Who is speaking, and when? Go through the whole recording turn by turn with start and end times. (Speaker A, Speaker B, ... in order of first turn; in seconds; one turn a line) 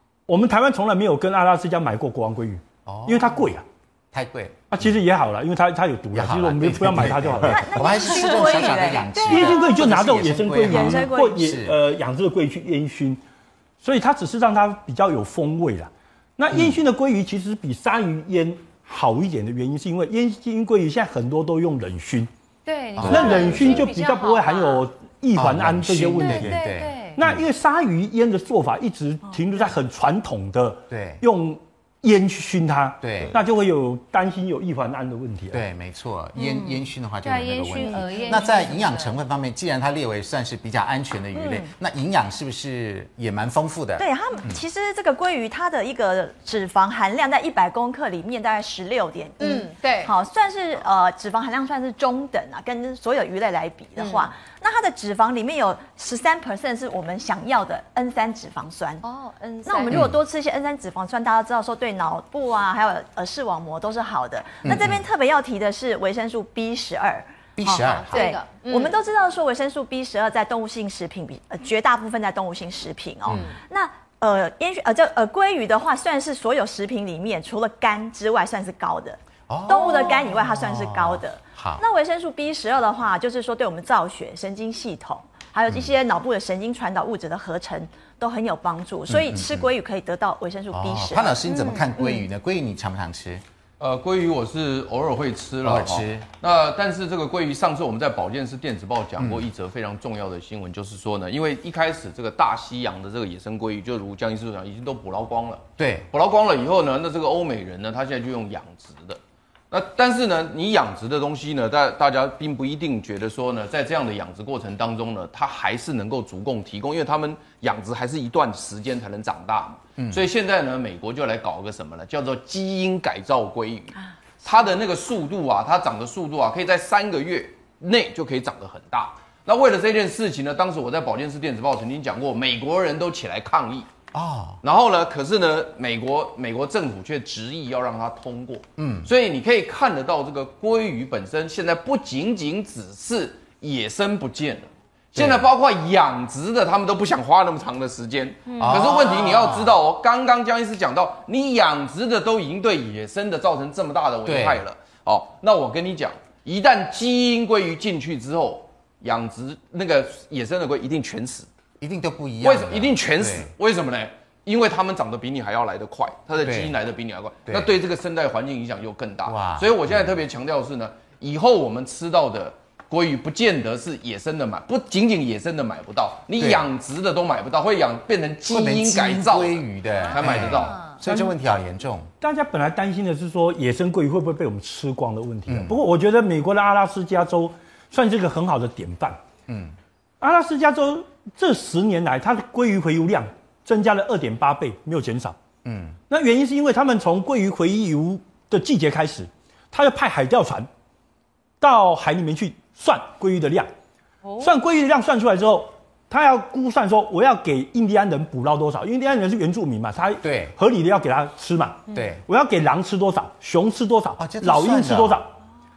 Speaker A: 0.3-3.6
Speaker B: 2.9-3.3
Speaker B: 4.1-4.9
Speaker A: 4.7-8.0
Speaker B: 6.1-11.8
Speaker C: 7.4-9.8
Speaker A: 9.2-13.2
Speaker C: 10.7-11.4
Speaker A: 13.8-22.3
Speaker B: 16.5-16.8
Speaker D: 22.7-24.9
Speaker B: 23.0-23.9
Speaker A: 23.0-35.6
Speaker B: 25.4-27.4
Speaker D: 26.2-27.2
Speaker B: 30.9-31.2
Speaker B: 33.0-33.4
Speaker B: 35.5-44.6
Speaker D: 36.4-39.1
Speaker C: 41.3-41.6
Speaker C: 44.0-59.0
Speaker D: 49.4-50.1
Speaker D: 54.0-54.3
Speaker D: 59.0-60.0
Speaker C: 59.7-67.2
Speaker B: 64.7-65.0
Speaker B: 67.6-68.3
Speaker D: 67.6-69.0
Speaker C: 68.2-79.2
Speaker B: 73.3-73.5
Speaker B: 79.5-81.8
Speaker C: 79.7-91.5
Speaker B: 89.1-89.7
Speaker B: 90.7-93.4
Speaker E: 93.8-109.2
Speaker B: 95.6-96.3
Speaker B: 99.2-99.5
Speaker B: 105.8-106.1
Speaker E: 109.7-133.9
Speaker B: 120.0-120.2
Speaker B: 134.1-134.6
Speaker E: 134.6-161.5
Speaker B: 138.8-139.1
Speaker B: 145.2-145.5
Speaker D: 148.5-149.5
Speaker B: 148.6-149.8
Speaker B: 154.2-154.6
Speaker B: 161.8-163.5
Speaker E: 162.4-180.9
Speaker B: 166.4-166.8
Speaker B: 167.4-167.7
Speaker B: 169.2-170.2
Speaker B: 176.4-176.7
Speaker B: 178.4-182.1
Speaker A: 182.2-189.2
Speaker B: 185.5-185.8
Speaker B: 189.5-189.8
Speaker A: 190.2-195.4
Speaker B: 195.6-196.0
Speaker A: 196.1-200.7
Speaker A: 201.6-203.7
Speaker A: 204.4-215.3
Speaker B: 210.2-210.6
Speaker B: 211.9-212.2
Speaker B: 214.2-215.2